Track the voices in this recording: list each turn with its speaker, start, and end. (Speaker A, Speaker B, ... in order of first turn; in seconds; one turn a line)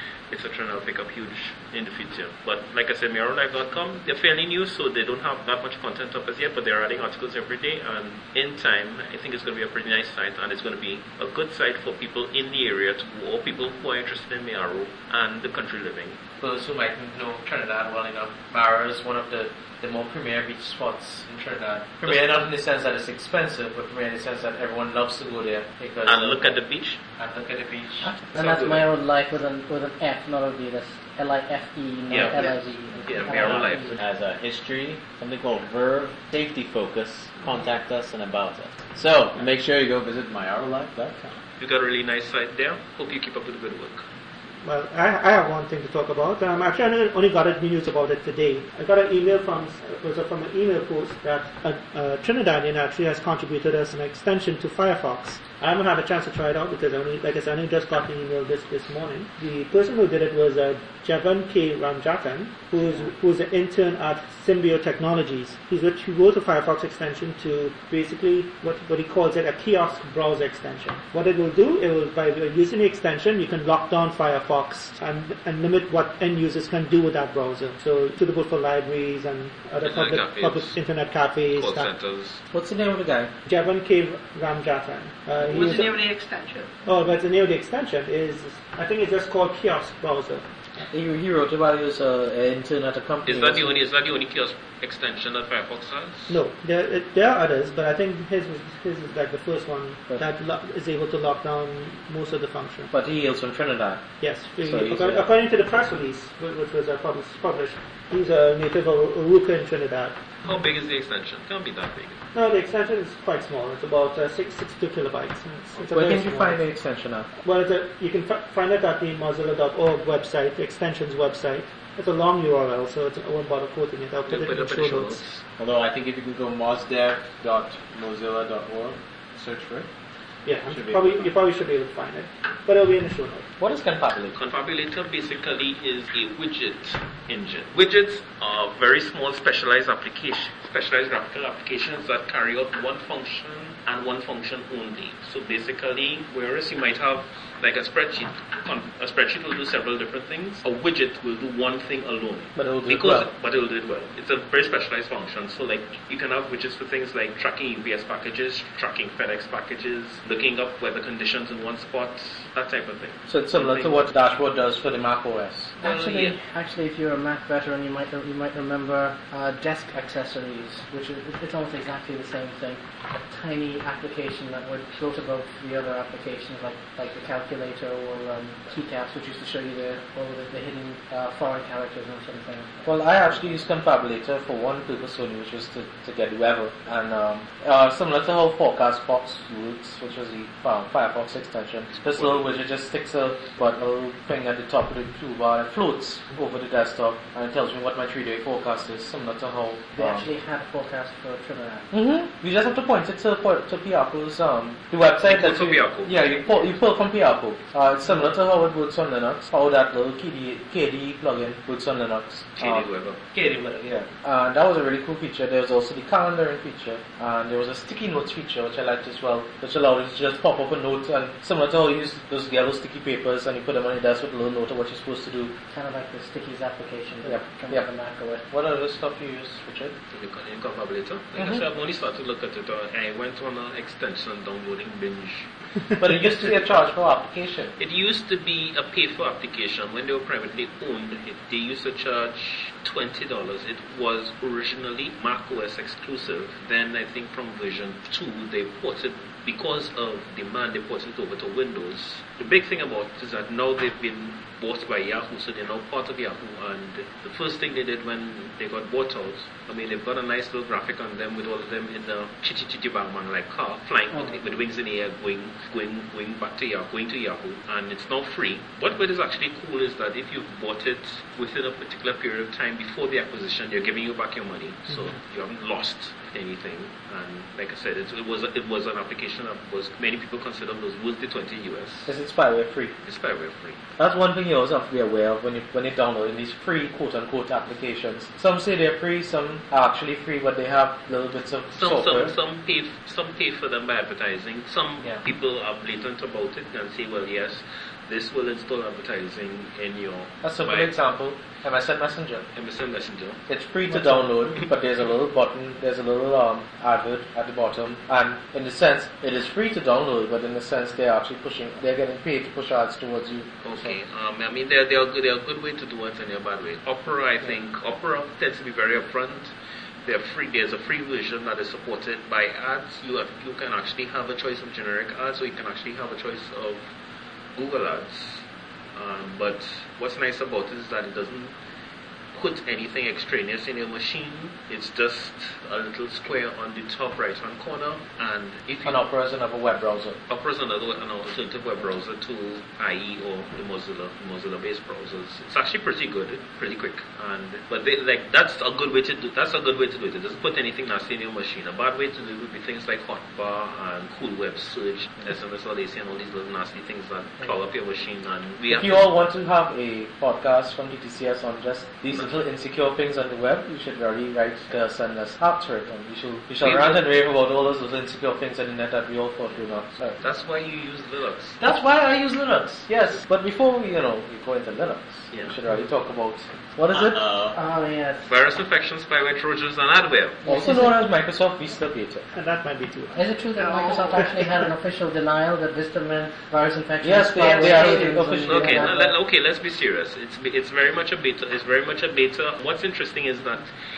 Speaker A: 0.3-16.2
Speaker B: 16.4-26.5
Speaker A: 26.1-27.0
Speaker B: 27.2-28.1
Speaker C: 28.0-34.0
Speaker A: 28.4-28.9
Speaker A: 32.1-32.4
Speaker D: 32.3-32.6
Speaker A: 33.1-34.0
Speaker E: 34.0-41.3
Speaker A: 41.6-44.0
Speaker F: 44.6-81.9
Speaker A: 79.8-80.8
Speaker A: 81.5-82.4
Speaker B: 82.5-83.3
Speaker F: 83.5-86.0
Speaker D: 85.4-86.7
Speaker F: 86.8-90.5
Speaker B: 90.9-93.8
Speaker A: 93.3-96.4
Speaker F: 96.3-102.9
Speaker B: 102.9-105.3
Speaker F: 104.2-110.2
Speaker A: 110.4-112.2
Speaker F: 112.3-116.7
Speaker B: 115.9-117.3
Speaker F: 117.4-125.2
Speaker A: 124.3-125.4
Speaker E: 125.6-129.9
Speaker F: 130.4-133.5
Speaker E: 130.7-131.3
Speaker B: 133.6-134.3
Speaker A: 134.3-164.1
Speaker B: 152.6-153.3
Speaker B: 163.3-165.7
Speaker A: 165.8-166.4
Speaker C: 165.8-183.7
Speaker B: 182.8-200.3
Speaker A: 191.9-192.5
Speaker C: 199.9-201.9
Speaker B: 201.9-225.6
Speaker A: 205.2-206.2
Speaker A: 212.6-213.2
Speaker C: 225.7-228.5
Speaker B: 227.2-227.9
Speaker B: 228.5-229.9
Speaker A: 230.1-235.5
Speaker B: 236.0-237.7
Speaker A: 237.8-282.1
Speaker C: 264.1-264.4
Speaker B: 282.1-282.9
Speaker A: 283.1-283.8
Speaker B: 284.0-292.3
Speaker A: 291.7-301.0
Speaker B: 300.4-302.5
Speaker A: 302.5-303.4
Speaker B: 303.5-313.9
Speaker A: 313.6-319.5
Speaker A: 320.0-326.8
Speaker A: 327.6-331.5
Speaker A: 332.3-339.0
Speaker B: 338.7-340.2
Speaker A: 340.3-359.1
Speaker B: 358.7-370.2
Speaker A: 366.6-367.1
Speaker A: 370.2-371.6
Speaker B: 371.6-377.2
Speaker E: 376.9-377.6
Speaker C: 377.5-378.3
Speaker A: 378.3-380.4
Speaker C: 380.4-381.0
Speaker B: 380.4-382.3
Speaker F: 382.3-383.2
Speaker C: 383.1-389.1
Speaker D: 383.6-384.4
Speaker B: 387.0-389.1
Speaker D: 387.4-388.1
Speaker A: 387.4-393.7